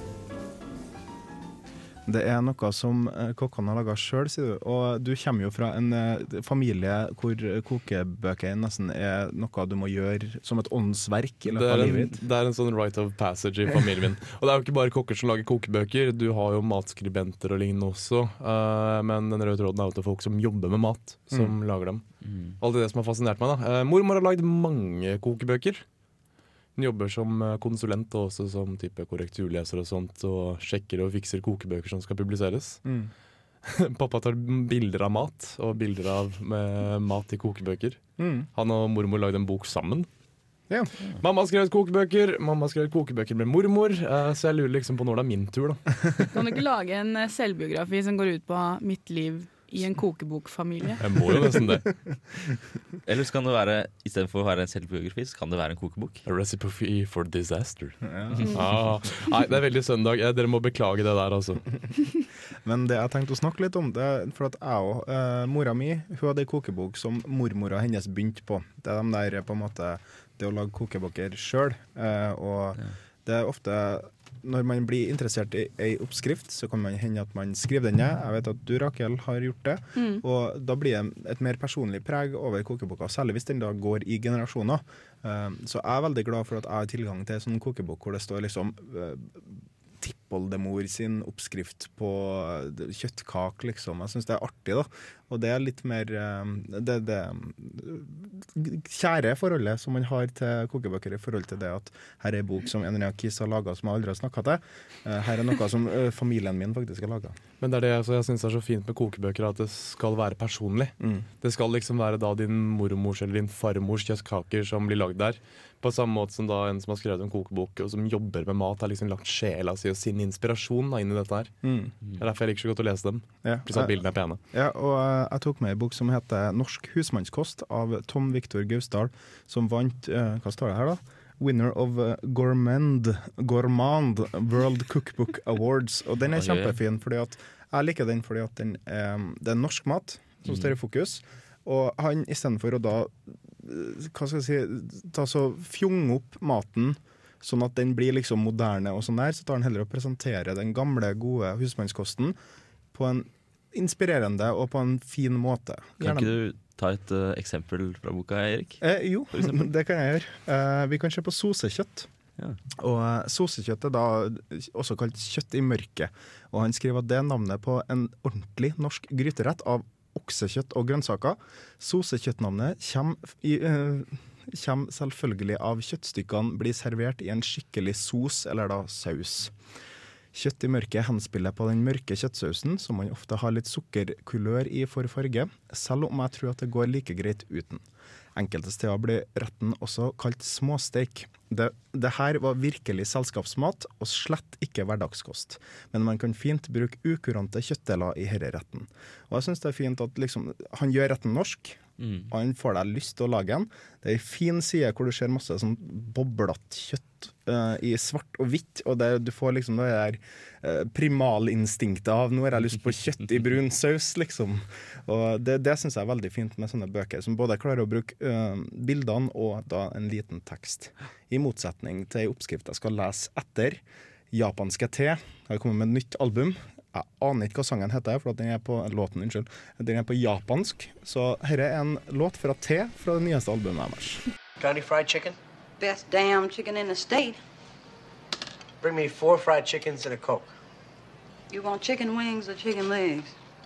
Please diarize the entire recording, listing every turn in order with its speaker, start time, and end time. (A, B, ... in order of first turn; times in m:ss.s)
0:02.0-0:12.2 A
0:11.4-0:22.0 B
0:22.2-0:22.5 C
0:22.6-0:25.8 B
0:26.8-0:32.8 B
0:32.8-0:33.1 A
0:33.6-0:38.0 B
0:38.2-0:38.5 A
0:38.5-0:40.1 B
0:41.2-0:46.2 B
0:46.3-0:51.0 D
0:51.0-0:51.9 B
0:53.0-0:56.2 C
0:56.2-1:01.6 B
0:58.0-0:58.6 A
1:02.6-1:29.5 A
1:20.0-1:20.2 D
1:30.0-1:47.4 A
1:47.6-2:01.5 B
1:51.0-1:51.2 A
2:01.6-2:01.9 A
2:02.2-2:04.4 B
2:03.4-2:04.0 A
2:04.5-2:32.4 A
2:16.3-2:16.8 C
2:20.4-2:20.7 C
2:32.9-2:36.3 A
2:36.0-2:39.6 C
2:38.8-2:42.1 A
2:42.8-2:59.5 A
3:00.3-3:07.8 A
3:08.3-3:54.2 A
3:22.0-3:22.3 C
3:54.6-3:55.4 E
3:55.8-3:57.4 F
3:58.8-4:00.5 E
4:01.5-4:03.3 F